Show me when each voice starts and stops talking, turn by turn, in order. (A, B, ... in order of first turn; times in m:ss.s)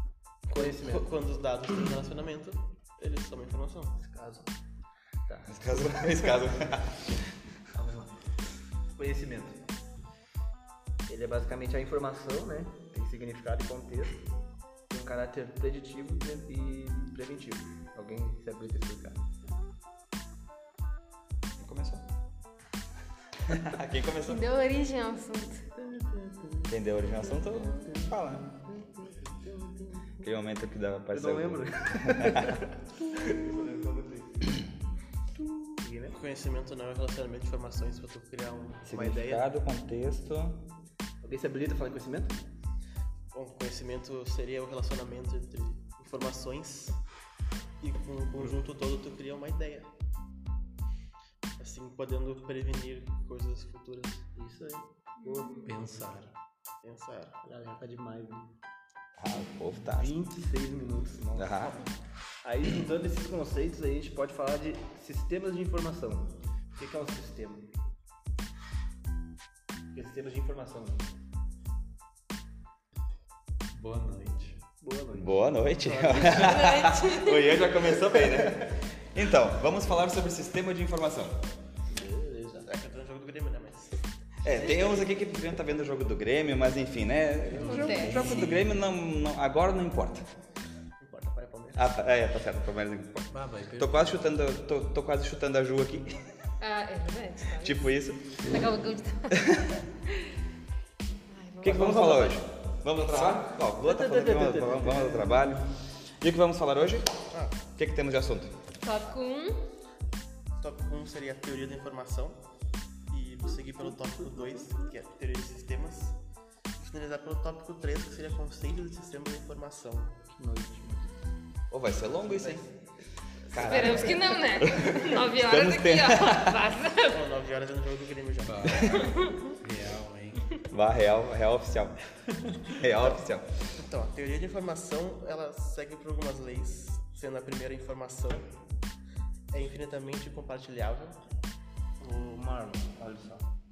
0:00.5-0:01.1 A
0:00.5-0:03.9 B
0:04.0-0:04.5 A
0:05.3-0:06.5 A
0:05.5-0:07.2 C
0:07.7-0:08.2 A
0:09.0-0:09.6 A
0:11.1-0:14.2 A
0:14.9-0:19.2 A
0:21.6-0:22.0 C
0:23.5-0:24.4 C
0:24.2-0:25.7 D
0:25.9-0:26.5 A
0:26.7-0:28.6 C
0:27.1-0:30.1 D
0:30.2-0:32.6 C
0:31.1-0:34.5 A
0:35.8-0:36.2 A
0:36.1-0:39.5 B
0:38.8-0:40.7 C
0:41.2-0:42.4 A
0:43.3-0:47.0 B
0:47.8-0:49.9 B
0:51.6-0:54.2 B
0:54.4-0:55.6 A
0:55.2-0:55.7 D
0:55.6-0:56.3 E
0:56.8-0:57.4 B
0:57.4-0:58.5 A
0:59.2-1:00.1 C
0:59.8-1:01.8 A
1:01.4-1:01.7 C
1:02.4-1:07.7 A
1:09.9-1:11.1 A
1:13.7-1:14.6 E
1:14.8-1:16.8 A
1:15.2-1:21.4 C
1:16.3-1:17.5 D
1:18.0-1:18.5 A
1:21.9-1:22.7 A
1:22.6-1:24.0 B
1:24.4-1:30.2 C
1:27.5-1:28.7 E
1:27.5-1:28.3 A
1:27.6-1:28.4 D
1:31.0-1:31.9 B
1:31.8-1:36.2 C
1:33.3-1:34.0 E
1:36.6-1:40.3 D
1:37.6-1:38.2 C
1:41.3-1:42.1 D
1:41.6-1:45.6 C
1:41.6-1:42.4 A
1:43.8-1:45.7 A
1:46.2-1:47.1 C
1:47.3-1:47.7 B
1:47.7-1:48.5 C
1:48.8-1:49.6 D
1:50.6-1:52.4 B
1:53.1-1:56.2 B
1:53.5-1:54.9 A
1:56.8-2:00.2 B
2:00.3-2:01.2 A
2:01.7-2:02.6 C
2:02.3-2:02.6 B
2:03.5-2:04.1 B
2:03.5-2:06.6 C
2:03.5-2:07.2 D
2:03.7-2:04.4 A
2:07.0-2:09.4 B
2:08.4-2:09.0 E
2:09.0-2:09.4 D
2:09.6-2:10.5 E
2:10.6-2:12.0 C
2:12.8-2:13.5 C
2:13.0-2:18.5 B
2:19.5-2:21.2 B
2:22.0-2:23.5 A